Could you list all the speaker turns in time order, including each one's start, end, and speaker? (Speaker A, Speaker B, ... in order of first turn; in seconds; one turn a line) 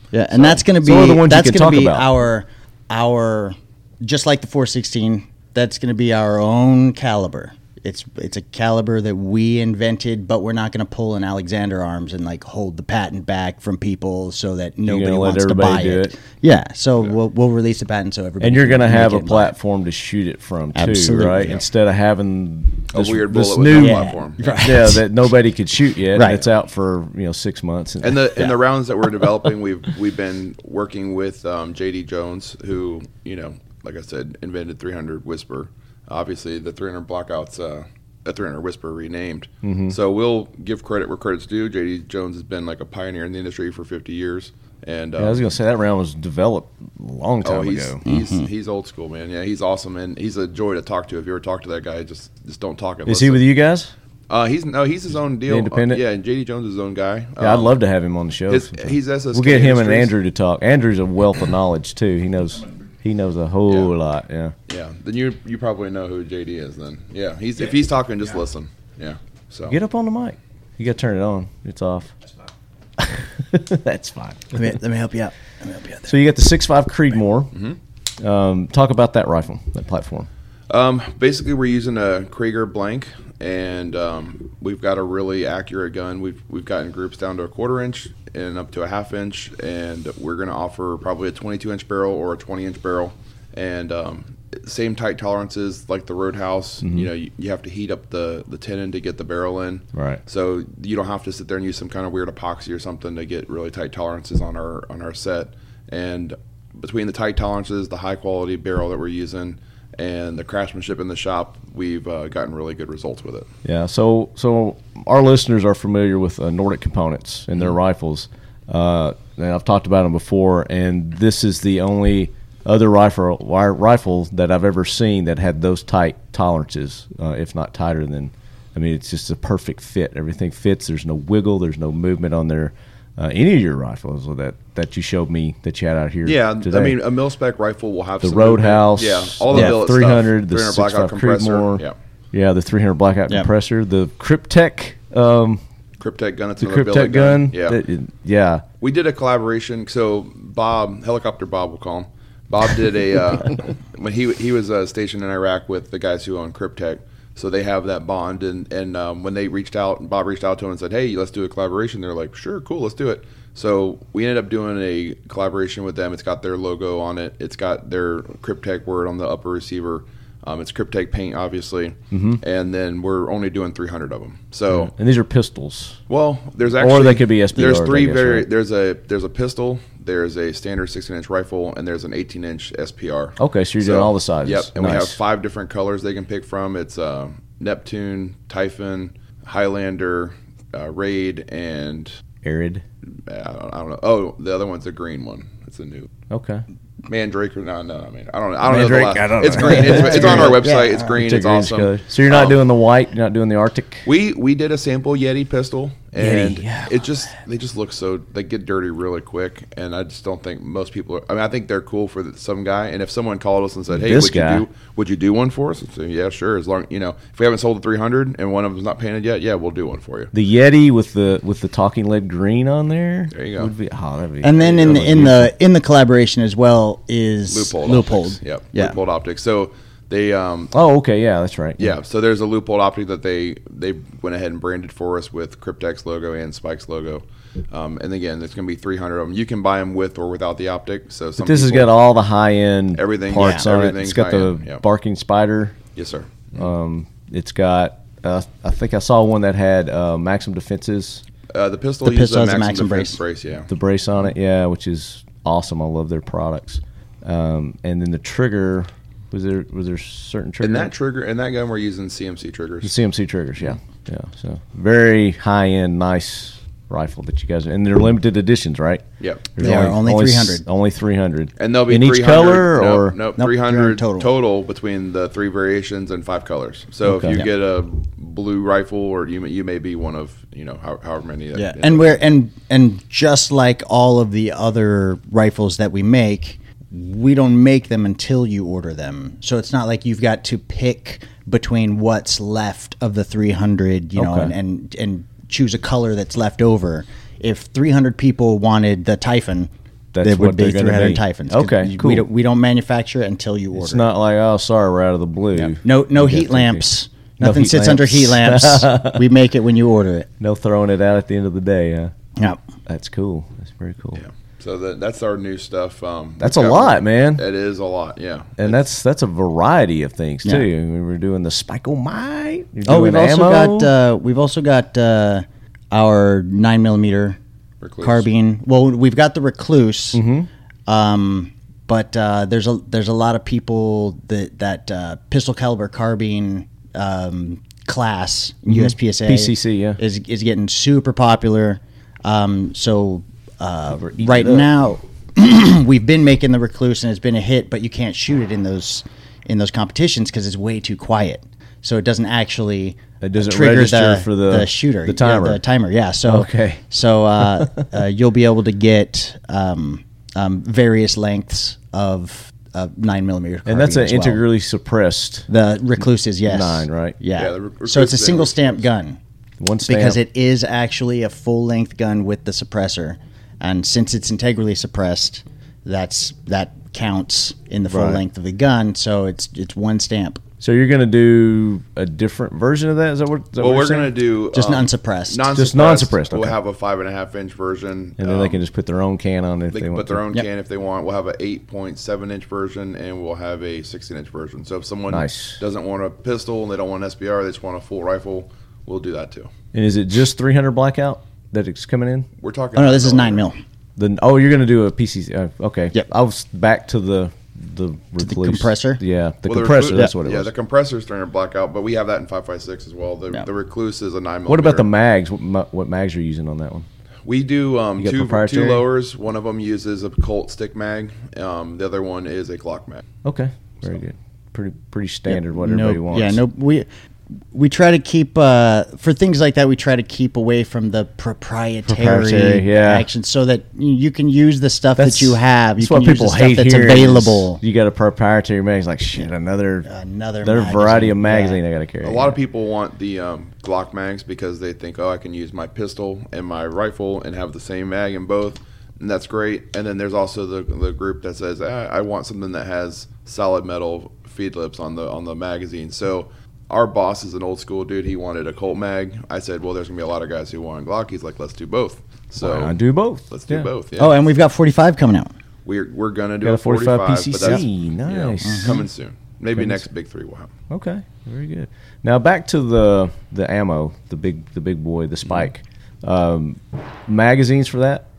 Speaker A: 0.1-19.5
Speaker B: 0.3-0.6
Speaker C: 0.8-2.1
Speaker C: 14.8-16.1
Speaker C: 18.4-28.3
Speaker A: 20.8-21.6
Speaker B: 22.9-24.7
Speaker A: 23.7-25.1
Speaker A: 26.1-26.4
Speaker B: 28.0-45.5
Speaker C: 39.6-40.0
Speaker C: 45.2-48.0
Speaker B: 47.4-53.5
Speaker A: 48.0-48.5
Speaker C: 53.1-53.9
Speaker B: 54.3-57.7
Speaker C: 55.5-56.0
Speaker C: 57.4-64.5
Speaker B: 58.5-60.2
Speaker B: 63.7-64.0
Speaker B: 64.7-69.8
Speaker C: 69.7-72.1
Speaker C: 73.0-74.6
Speaker A: 74.5-76.1
Speaker C: 76.1-77.5
Speaker B: 77.5-77.8
Speaker C: 78.2-80.3
Speaker B: 80.7-113.5
Speaker C: 96.8-97.1
Speaker C: 100.0-100.2
Speaker C: 113.6-137.0
Speaker B: 136.2-142.0
Speaker C: 138.2-145.6
Speaker B: 146.0-147.8
Speaker C: 146.6-148.6
Speaker B: 148.8-174.9
Speaker C: 172.1-172.4
Speaker C: 174.7-176.0
Speaker B: 176.1-192.2
Speaker C: 176.8-178.5
Speaker C: 183.4-185.2
Speaker C: 192.4-192.8
Speaker B: 193.3-196.1
Speaker C: 196.3-196.7
Speaker B: 197.1-202.6
Speaker C: 198.6-200.6
Speaker A: 199.6-201.2
Speaker C: 201.2-204.1
Speaker B: 204.1-220.3
Speaker C: 206.2-207.0
Speaker C: 213.9-214.7
Speaker C: 220.3-225.5
Speaker B: 223.3-223.7
Speaker A: 224.4-229.0
Speaker B: 224.7-225.3
Speaker B: 227.5-230.7
Speaker C: 230.7-231.9
Speaker B: 231.8-242.0
Speaker C: 241.4-245.8
Speaker B: 242.9-244.8
Speaker A: 243.4-243.7
Speaker B: 245.9-246.7
Speaker C: 246.6-251.2
Speaker B: 251.5-253.7
Speaker A: 252.0-253.2
Speaker C: 253.7-260.9
Speaker B: 260.6-263.0
Speaker C: 262.8-269.0
Speaker B: 269.2-269.5
Speaker C: 269.6-273.2
Speaker A: 269.6-270.6
Speaker B: 271.6-282.2
Speaker A: 273.4-274.3
Speaker C: 277.0-277.4
Speaker A: 281.5-299.7
Speaker C: 294.2-294.5
Speaker C: 300.1-302.3
Speaker A: 300.2-304.1
Speaker C: 303.7-306.9
Speaker A: 305.6-310.3
Speaker C: 307.4-309.2
Speaker C: 310.4-312.1
Speaker C: 312.9-314.2
Speaker B: 314.1-318.9
Speaker C: 316.4-317.5
Speaker C: 318.6-323.9
Speaker A: 322.9-327.4
Speaker B: 327.8-328.3
Speaker A: 328.0-330.2
Speaker C: 330.1-330.5
Speaker A: 330.9-364.4
Speaker C: 338.7-340.0
Speaker C: 343.9-344.7
Speaker C: 353.2-355.6
Speaker C: 356.3-356.8
Speaker C: 357.4-357.9
Speaker C: 363.7-365.5
Speaker A: 365.5-369.2
Speaker C: 366.4-367.2
Speaker B: 367.3-368.9
Speaker C: 369.6-370.2
Speaker A: 369.9-380.4
Speaker C: 377.9-378.2
Speaker C: 380.6-384.1
Speaker B: 383.6-388.6
Speaker A: 384.5-385.5
Speaker C: 385.5-386.6
Speaker C: 388.2-390.2
Speaker B: 389.7-399.5
Speaker C: 395.1-395.6
Speaker C: 399.7-402.3
Speaker B: 402.4-403.5
Speaker A: 402.8-403.6
Speaker C: 404.0-410.5
Speaker A: 408.2-409.0
Speaker B: 409.4-414.9
Speaker C: 414.5-416.9
Speaker B: 417.2-423.1
Speaker C: 418.0-418.9
Speaker C: 423.2-426.4
Speaker A: 425.3-426.9
Speaker A: 427.5-437.6
Speaker C: 431.9-433.1
Speaker C: 435.0-439.9
Speaker A: 439.9-441.6
Speaker C: 440.4-442.4
Speaker B: 442.0-464.2
Speaker C: 462.4-463.7
Speaker A: 464.0-465.3
Speaker B: 465.6-470.5
Speaker C: 466.4-468.8
Speaker A: 468.4-468.8
Speaker C: 469.5-469.9
Speaker C: 470.7-478.1